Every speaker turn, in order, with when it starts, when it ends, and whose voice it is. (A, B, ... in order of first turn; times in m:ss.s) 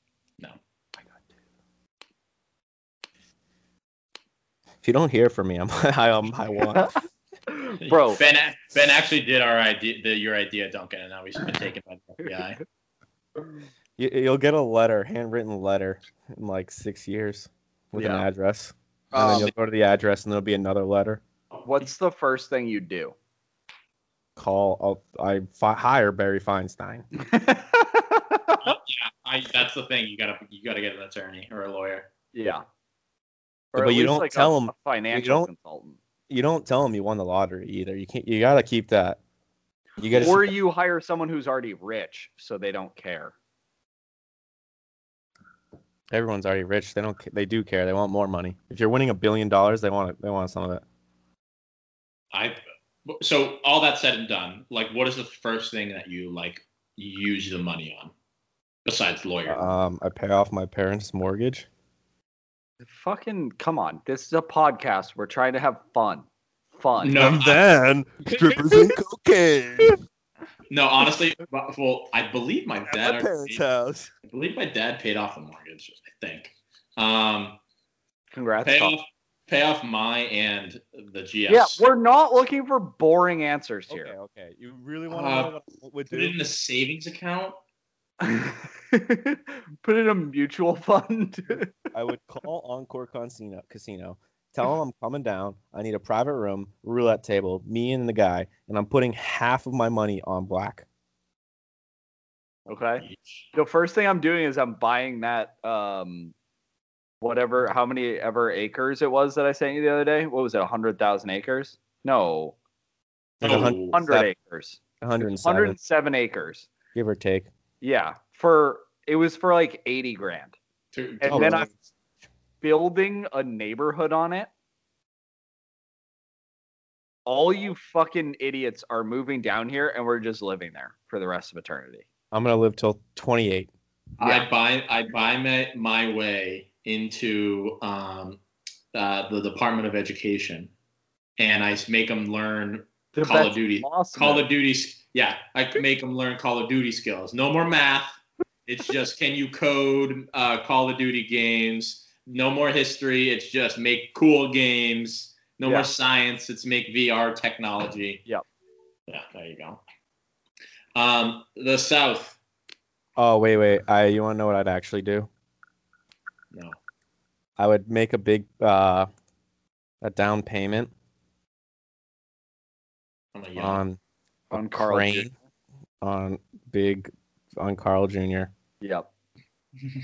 0:04.8-0:07.0 A
0:07.5-0:08.2 B
0:07.8-0:12.6 C
0:14.0-0:21.2 A
0:18.0-0:18.2 B
0:19.1-0:19.5 B
0:21.6-0:23.1 B
0:24.4-0:27.0 A
0:27.2-0:28.6 B
0:28.6-0:32.1 C
0:32.3-0:32.6 B
0:33.7-0:36.0 B
0:33.7-0:35.5 A
0:36.3-0:39.2 A
0:40.0-0:40.5 A
0:40.1-0:43.3 B
0:46.1-0:50.8 A
0:52.3-0:58.1 C
0:58.8-0:59.7 C
0:59.5-1:01.6 A
1:02.8-1:07.3 B
1:07.0-1:07.6 C
1:07.1-1:10.0 A
1:08.3-1:09.0 B
1:10.7-1:13.6 C
1:12.8-1:14.1 A
1:14.2-1:17.6 C
1:18.3-1:18.9 B
1:18.6-1:21.8 C
1:21.5-1:24.1 B
1:23.9-1:26.4 A
1:25.1-1:25.5 C
1:26.1-1:27.6 C
1:28.2-1:31.7 B
1:31.9-1:40.8 A
1:42.7-1:46.3 B
1:43.0-1:43.4 C
1:47.2-1:52.6 B
1:53.4-1:54.0 C
1:53.4-1:54.3 A
1:53.9-1:56.7 B
1:55.0-1:55.8 A
1:56.9-1:57.5 A
1:57.8-2:00.6 B
2:00.9-2:01.7 C
2:01.2-2:01.7 B
2:01.3-2:01.7 A
2:02.6-2:04.5 B
2:07.2-2:12.0 B
2:12.3-2:13.7 A
2:14.2-2:14.4 B
2:14.2-2:18.4 C
2:18.9-2:20.7 C
2:21.4-2:38.2 C
2:23.2-2:24.5 B
2:39.1-2:39.8 C
2:40.9-2:42.4 C
2:43.2-2:45.3 A
2:46.5-2:46.8 C
2:47.6-2:49.1 A
2:50.0-2:50.9 A
2:53.3-2:53.8 C
2:53.6-2:54.0 A
2:54.5-2:55.3 B
2:54.5-2:55.3 A
2:56.0-2:58.5 A
2:58.8-2:59.1 B